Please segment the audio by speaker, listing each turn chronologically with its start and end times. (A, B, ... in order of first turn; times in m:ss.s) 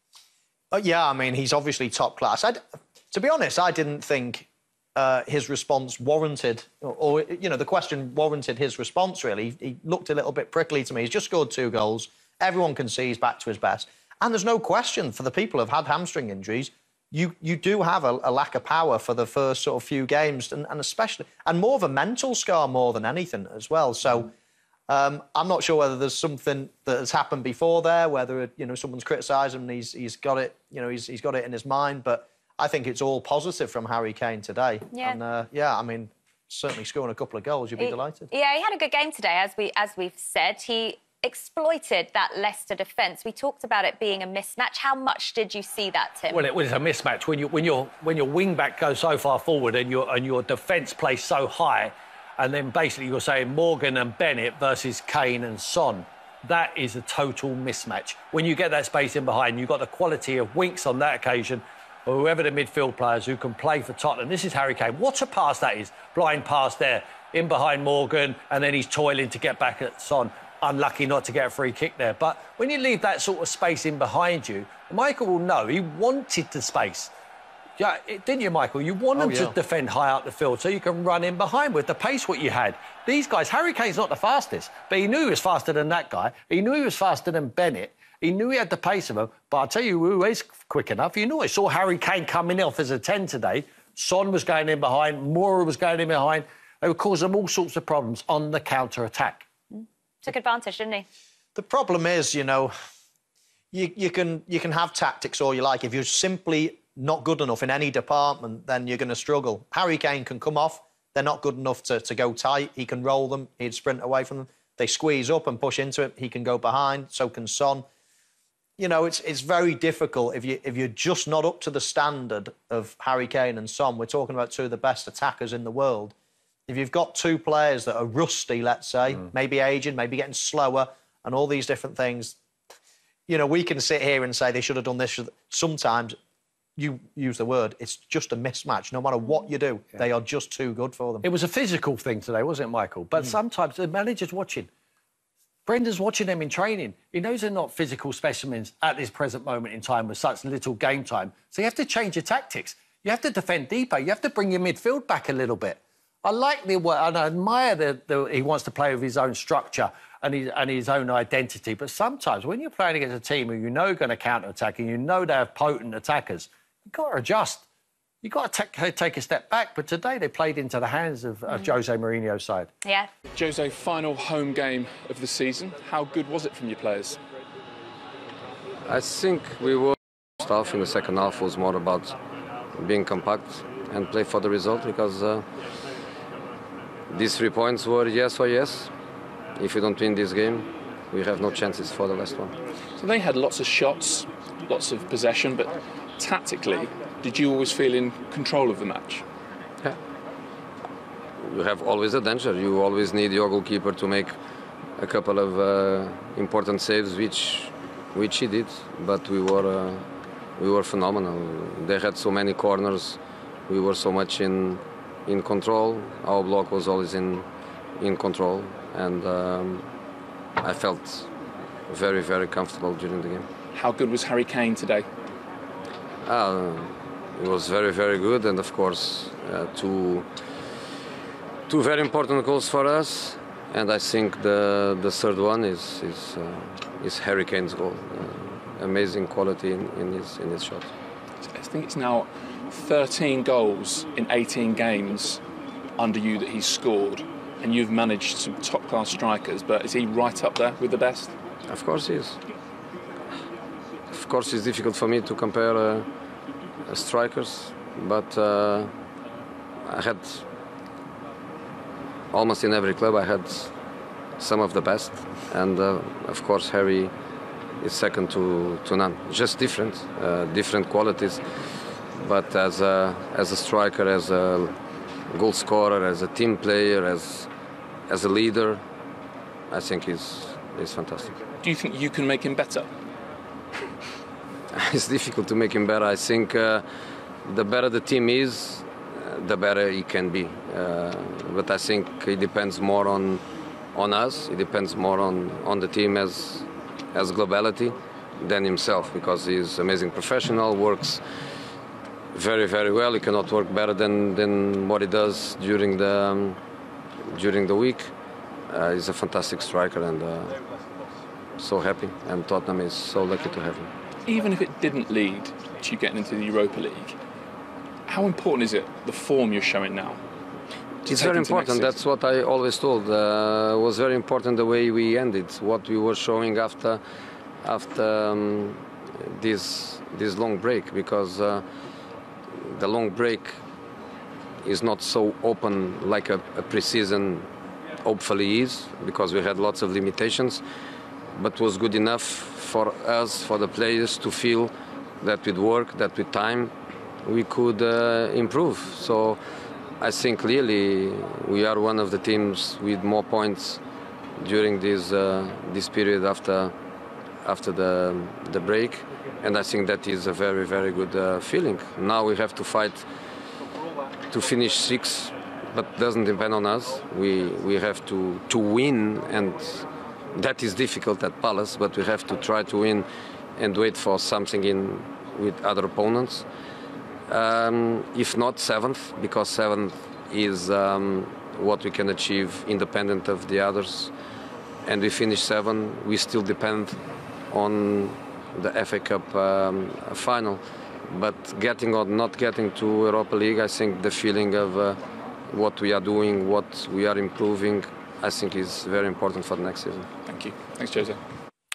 0:00.7-0:24.3 A
0:24.9-0:38.3 A
0:37.8-0:46.4 B
0:46.3-1:17.1 C
1:17.8-1:39.4 C
1:19.1-1:19.5 A
1:39.7-1:41.0 B
1:41.5-1:42.7 A
1:43.7-1:57.8 A
1:58.8-2:06.1 A
2:06.7-2:12.4 A
2:13.3-2:16.2 A
2:16.8-2:21.2 A
2:21.2-2:24.7 C
2:25.6-2:47.6 C
2:48.2-2:52.7 C
2:51.5-2:51.7 B
2:52.8-2:53.1 B
2:53.3-2:57.2 D
2:58.8-3:02.2 E
3:02.7-3:05.5 E
3:07.1-3:08.9 E
3:09.6-3:12.5 E
3:13.0-3:19.2 D
3:21.4-3:24.3 E
3:25.0-3:30.0 E
3:30.6-3:39.9 E
3:40.6-3:41.3 E
3:41.9-3:43.5 E
3:43.7-3:45.0 D
3:46.2-3:50.3 E
3:51.7-4:00.9 E
4:01.4-4:05.4 D
4:06.0-4:11.3 D
4:11.7-4:12.4 E
4:14.1-4:16.1 E
4:16.8-4:18.9 E
4:19.8-4:20.4 E
4:22.3-4:23.7 E
4:24.4-4:27.1 E
4:27.8-4:31.4 E
4:32.1-4:37.5 E
4:38.1-4:38.8 E
4:39.7-4:41.4 E
4:41.6-4:42.9 D
4:44.7-4:46.8 E
4:47.4-5:01.2 E
5:02.3-5:06.6 E
5:07.3-5:08.1 E
5:08.7-5:10.6 E
5:11.6-5:13.9 E
5:14.2-5:17.2 D
5:18.1-5:20.2 D
5:21.0-5:21.9 D
5:21.1-5:27.0 E
5:27.6-5:31.6 E
5:32.6-5:33.6 E
5:34.6-5:40.6 E
5:41.3-5:49.4 E
5:50.0-5:53.8 E
5:54.4-5:56.7 E
5:57.4-6:03.0 E
6:04.3-6:16.5 E
6:17.3-6:24.1 E
6:24.8-6:40.1 E
6:40.2-6:41.2 D